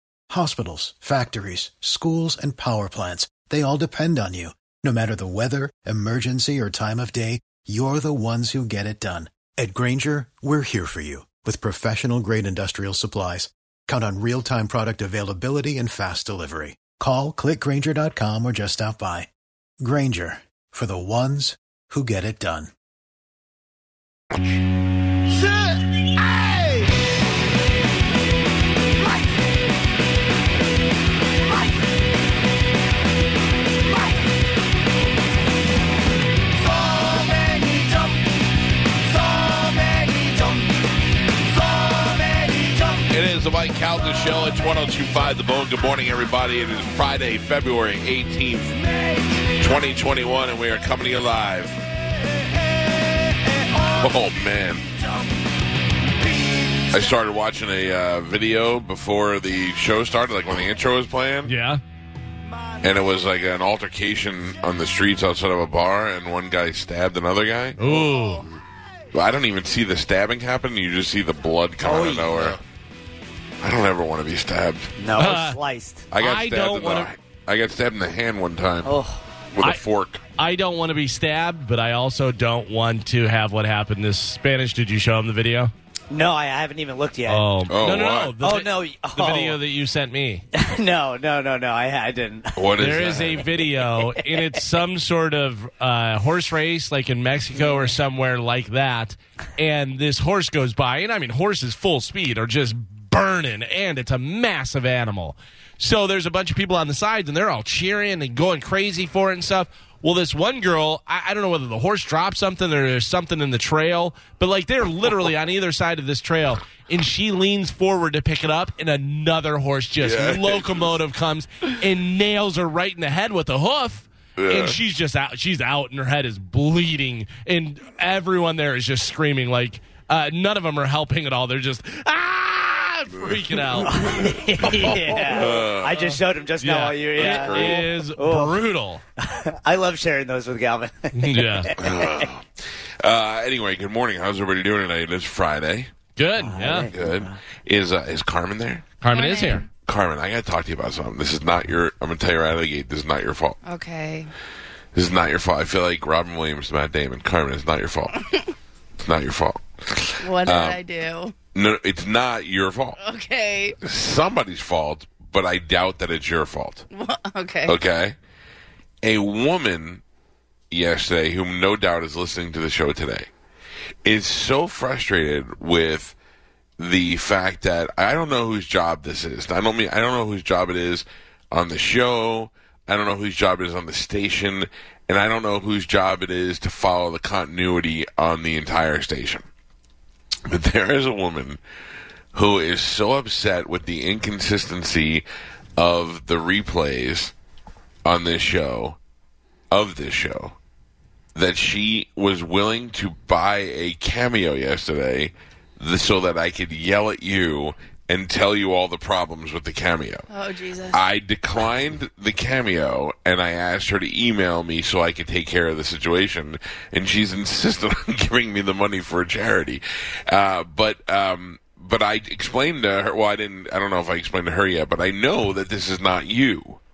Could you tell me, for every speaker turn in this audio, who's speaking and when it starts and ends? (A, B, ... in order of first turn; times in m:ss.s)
0:00.3-0:22.7 A
0:43.1-0:48.9 B
0:49.5-0:51.8 B
0:53.9-0:54.9 B
0:56.9-1:01.5 B
1:01.4-1:01.8 C
1:02.8-1:07.8 B
1:07.8-1:08.5 C
1:09.1-1:12.6 B
1:11.8-1:12.5 D
1:13.6-1:14.9 B
1:15.0-1:16.1 D
1:15.2-1:15.6 C
1:16.1-1:19.0 B
1:16.2-1:17.1 C
1:18.8-1:19.2 D
1:19.5-1:20.2 B
1:20.4-1:25.7 C
1:26.1-1:27.6 D
1:27.3-1:30.4 C
1:27.7-1:28.4 B
1:28.4-1:29.6 D
1:30.5-1:32.8 D
1:32.6-1:33.5 B
1:32.8-2:14.2 C
1:34.0-1:34.6 D
1:37.6-1:37.9 D
2:00.0-2:01.0 B
2:04.4-2:04.8 B
2:13.2-2:16.2 B
2:13.8-2:18.7 D
2:15.9-2:19.0 C
2:17.1-2:18.0 B
2:19.2-2:22.3 D
2:21.1-2:21.8 C
2:21.8-2:22.5 B
2:23.0-2:25.9 B
2:26.2-2:26.9 C
2:26.4-2:27.4 D
2:26.9-2:29.0 B
2:29.0-2:29.7 C
2:29.1-2:29.6 E
2:29.8-2:33.6 B
2:33.6-2:34.3 E
2:34.9-2:38.2 B
2:39.0-2:40.8 B
2:40.2-2:41.3 E
2:41.5-2:43.0 B
2:43.0-2:43.8 E
2:43.8-2:46.9 B
2:46.9-2:47.8 E
2:47.7-2:48.2 B
2:49.0-2:50.0 B
2:50.7-2:53.3 B
2:54.0-2:56.2 B
2:56.8-3:09.4 B
3:10.5-3:11.6 B
3:12.3-3:15.2 B
3:15.8-3:17.3 B
3:18.0-3:19.0 B
3:19.7-3:20.6 B
3:21.4-3:30.3 B
3:30.3-3:31.0 E
3:30.9-3:46.8 B